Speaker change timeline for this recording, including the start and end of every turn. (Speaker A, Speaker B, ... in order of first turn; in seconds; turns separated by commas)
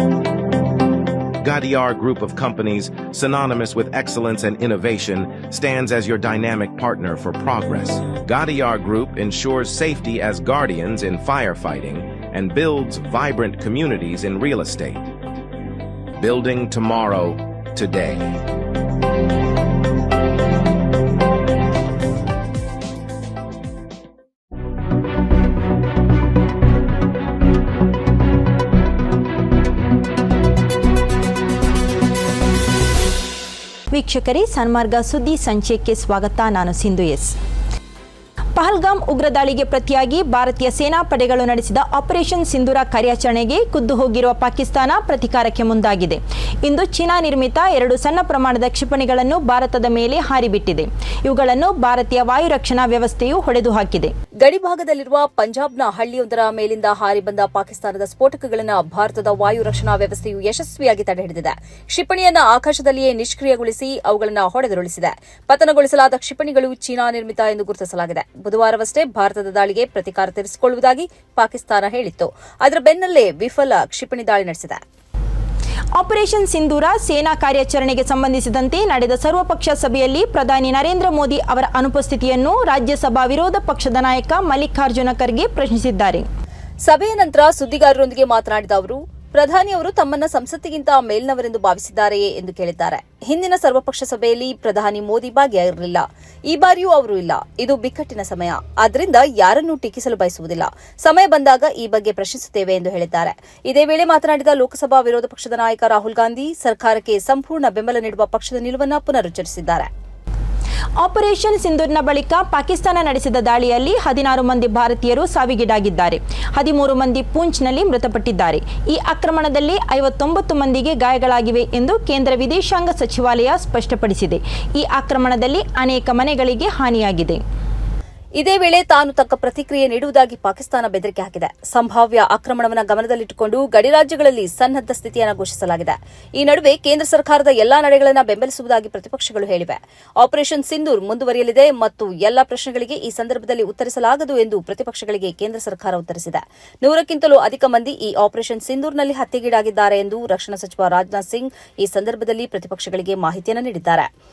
Speaker A: 1.4-15.0, Speaker A: 16.2-18.3, Speaker B: 33.9-37.4, Speaker B: 38.5-54.1, Speaker C: 54.4-74.8, Speaker B: 76.0-86.2, Speaker C: 86.8-109.9, Speaker B: 111.0-127.4, Speaker C: 128.4-154.1